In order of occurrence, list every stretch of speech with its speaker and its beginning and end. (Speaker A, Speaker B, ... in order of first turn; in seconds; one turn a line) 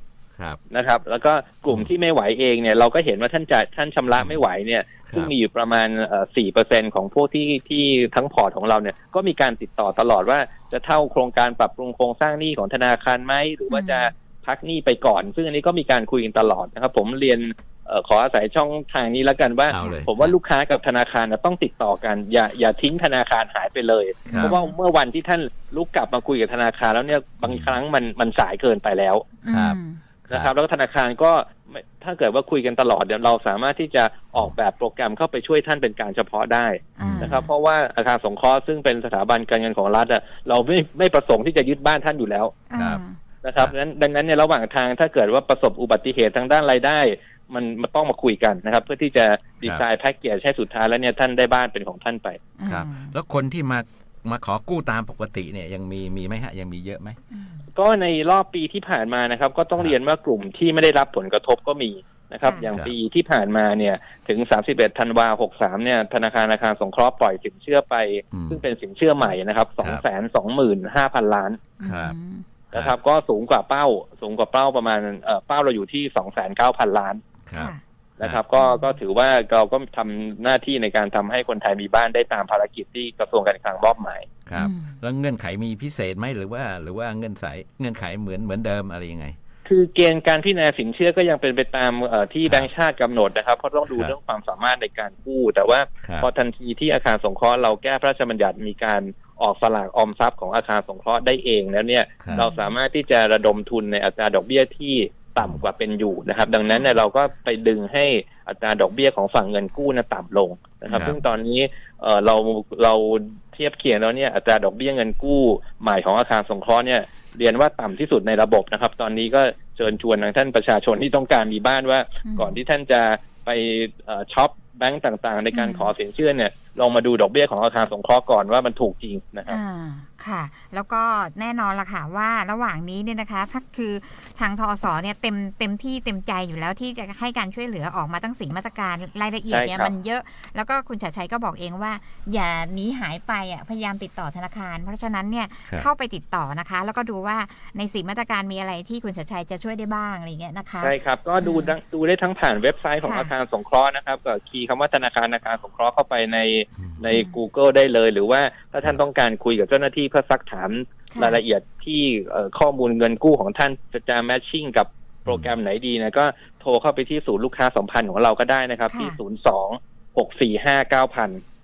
Speaker A: 0.7-29.3
Speaker B: 5.1-5.3
Speaker C: 13.7-14.1
Speaker B: 19.7-20.4
Speaker C: 19.8-20.0
Speaker C: 24.2-24.7
Speaker B: 24.3-24.6
Speaker B: 27.4-27.8
Speaker C: 29.4-30.0
Speaker B: 29.5-29.8
Speaker A: 30.3-42.6
Speaker C: 37.0-37.5
Speaker B: 37.0-37.4
Speaker C: 42.7-43.2
Speaker B: 42.7-43.0
Speaker A: 43.4-52.4
Speaker C: 52.6-53.1
Speaker B: 52.6-57.2
Speaker C: 57.3-57.7
Speaker A: 57.8-71.7
Speaker C: 62.4-62.7
Speaker B: 62.7-62.9
Speaker B: 68.3-68.6
Speaker C: 71.8-72.5
Speaker B: 71.8-72.1
Speaker A: 72.7-77.2
Speaker B: 77.4-78.4
Speaker C: 77.5-77.8
Speaker A: 78.2-84.3
Speaker C: 78.6-79.0
Speaker B: 84.5-89.4
Speaker C: 84.5-85.0
Speaker A: 89.7-129.6
Speaker B: 93.9-94.1
Speaker B: 96.0-96.3
Speaker B: 102.2-102.5
Speaker C: 102.3-102.7
Speaker B: 105.4-105.7
Speaker C: 110.9-111.2
Speaker B: 110.9-111.2
Speaker C: 122.2-122.6
Speaker C: 125.5-125.9
Speaker C: 129.4-151.7
Speaker A: 139.5-139.9
Speaker A: 150.8-171.4
Speaker C: 153.0-153.3
Speaker C: 157.1-157.4
Speaker C: 161.1-161.4
Speaker B: 165.3-165.5
Speaker C: 168.9-169.2